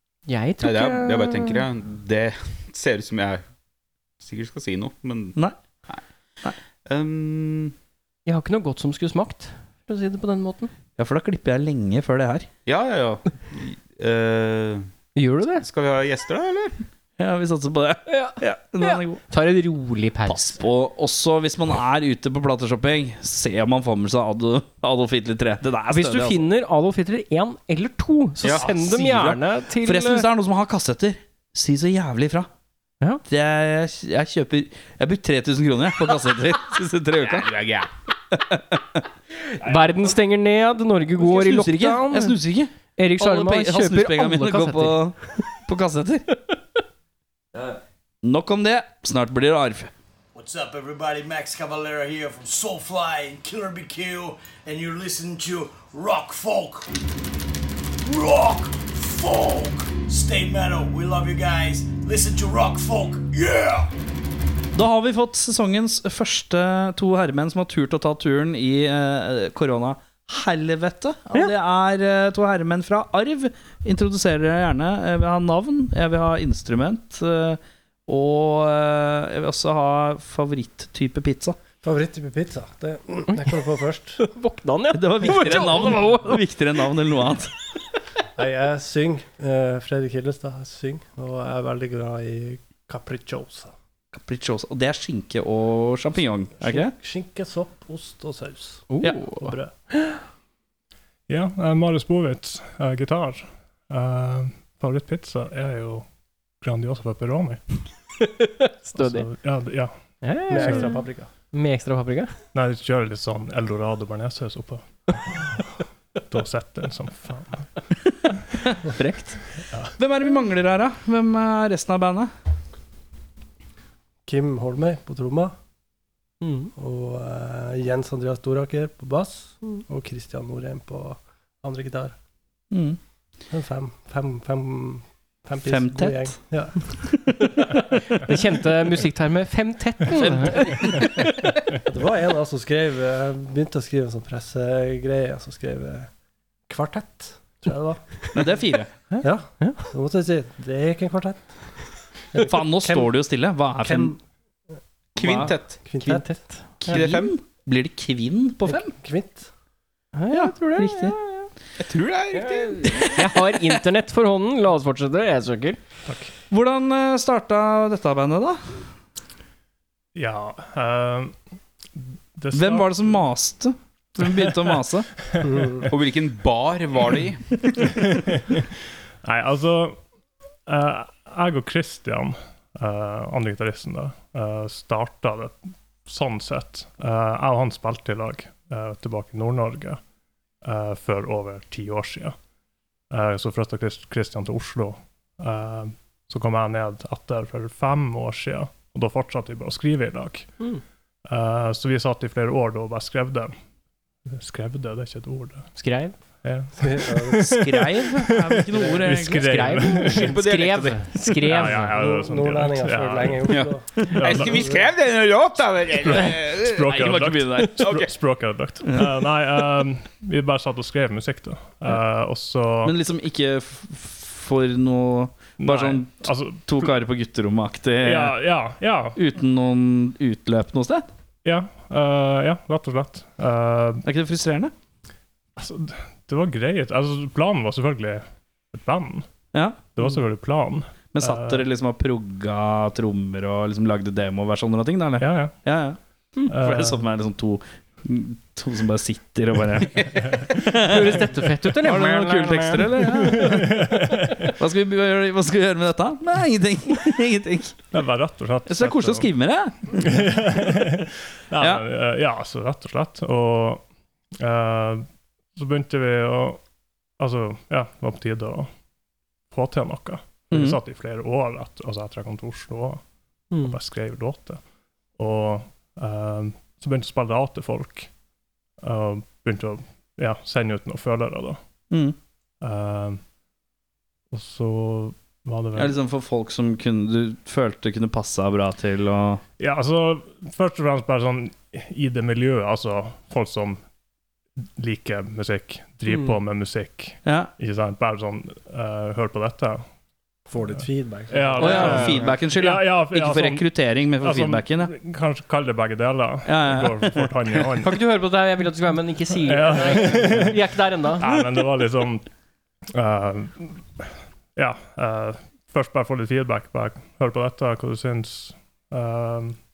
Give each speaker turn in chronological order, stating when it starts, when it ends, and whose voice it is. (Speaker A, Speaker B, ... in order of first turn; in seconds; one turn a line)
Speaker A: 0.3-1.6
Speaker B: 0.6-3.4
Speaker B: 4.2-5.4
Speaker B: 6.8-7.7
Speaker A: 8.2-10.7
Speaker C: 11.0-12.5
Speaker B: 12.7-14.9
Speaker A: 15.1-15.6
Speaker B: 15.6-16.9
Speaker C: 17.2-19.2
Speaker A: 18.1-20.6
Speaker C: 20.3-26.4
Speaker A: 25.9-30.2
Speaker C: 28.4-32.5
Speaker C: 33.2-37.5
Speaker B: 37.2-37.9
Speaker C: 38.3-39.0
Speaker A: 39.6-42.4
Speaker C: 41.2-46.3
Speaker A: 43.0-45.1
Speaker C: 48.2-49.9
Speaker D: 50.3-56.9
Speaker D: 58.0-63.9
Speaker C: 64.7-81.6
Speaker E: 81.8-84.2
Speaker A: 84.2-86.4
Speaker C: 84.9-87.5
Speaker E: 88.3-93.7
Speaker C: 94.1-96.9
Speaker E: 96.6-99.7
Speaker A: 98.9-100.2
Speaker F: 101.3-106.0
Speaker F: 106.6-107.6
Speaker A: 108.2-109.3
Speaker F: 109.0-109.9
Speaker A: 110.2-112.3
Speaker F: 110.5-111.0
Speaker E: 110.5-111.3
Speaker F: 112.5-115.6
Speaker F: 116.3-117.7
Speaker A: 118.9-119.4
Speaker C: 120.0-122.3
Speaker E: 124.3-125.5
Speaker A: 126.4-126.7
Speaker E: 126.8-132.1
Speaker C: 132.7-133.0
Speaker E: 133.5-137.0
Speaker C: 135.6-136.3
Speaker C: 137.0-137.3
Speaker A: 137.6-141.6
Speaker C: 140.1-141.2
Speaker E: 141.8-146.1
Speaker E: 146.7-148.0
Speaker C: 148.3-148.9
Speaker A: 149.1-149.8
Speaker E: 149.2-151.6
Speaker E: 152.3-153.1
Speaker C: 152.4-154.1
Speaker E: 153.8-154.2
Speaker B: 155.2-155.8
Speaker C: 155.2-155.5
Speaker E: 155.8-156.3
Speaker A: 156.0-157.0
Speaker C: 156.8-158.9
Speaker B: 156.9-157.3
Speaker E: 158.7-159.5
Speaker A: 160.2-161.5
Speaker C: 160.3-161.1
Speaker B: 161.8-163.2
Speaker A: 162.4-165.8
Speaker C: 166.5-168.8
Speaker F: 170.1-171.3
Speaker F: 172.0-173.2
Speaker C: 172.5-175.1
Speaker F: 174.2-174.5
Speaker F: 175.2-175.9
Speaker E: 175.5-175.8
Speaker B: 175.9-178.0
Speaker F: 178.0-178.7
Speaker F: 179.2-180.0
Speaker F: 180.7-190.0
Speaker F: 190.6-192.3
Speaker F: 193.1-200.5
Speaker F: 201.2-203.5
Speaker F: 204.3-205.7
Speaker A: 205.8-206.2
Speaker F: 206.4-210.3
Speaker E: 206.8-207.4
Speaker C: 207.4-209.9
Speaker A: 209.4-211.9
Speaker B: 210.1-211.3
Speaker F: 211.4-214.7
Speaker E: 211.9-214.8
Speaker B: 213.5-217.0
Speaker F: 216.1-222.9
Speaker C: 216.8-217.8
Speaker B: 217.8-218.1
Speaker C: 218.8-219.3
Speaker C: 222.8-228.3
Speaker F: 225.6-226.9
Speaker F: 228.0-229.2
Speaker C: 229.2-231.0
Speaker F: 231.4-234.0
Speaker C: 234.0-234.7
Speaker F: 235.6-239.3
Speaker C: 239.5-239.9
Speaker F: 239.9-241.7
Speaker C: 241.1-253.8
Speaker F: 245.2-245.6
Speaker F: 246.5-247.1
Speaker F: 250.1-250.6
Speaker A: 250.8-253.5
Speaker F: 253.3-254.6
Speaker C: 254.6-257.9
Speaker F: 257.9-259.3
Speaker C: 258.7-260.8
Speaker F: 259.9-263.8
Speaker C: 261.6-261.8
Speaker F: 264.4-266.6
Speaker F: 267.2-268.7
Speaker F: 269.5-273.0
Speaker C: 270.5-270.8
Speaker F: 273.6-274.6
Speaker F: 275.2-278.1
Speaker F: 278.8-281.6
Speaker C: 281.9-282.1
Speaker F: 282.6-283.2
Speaker F: 284.3-285.9
Speaker C: 285.8-289.4
Speaker F: 289.6-293.8
Speaker F: 294.8-299.8
Speaker C: 297.2-297.5
Speaker E: 300.5-302.2
Speaker F: 300.7-303.7
Speaker A: 301.6-302.3
Speaker C: 301.6-304.9
Speaker F: 304.2-308.0
Speaker C: 306.4-307.7
Speaker A: 307.8-311.4
Speaker F: 309.4-310.6
Speaker F: 311.2-312.2
Speaker F: 312.9-319.6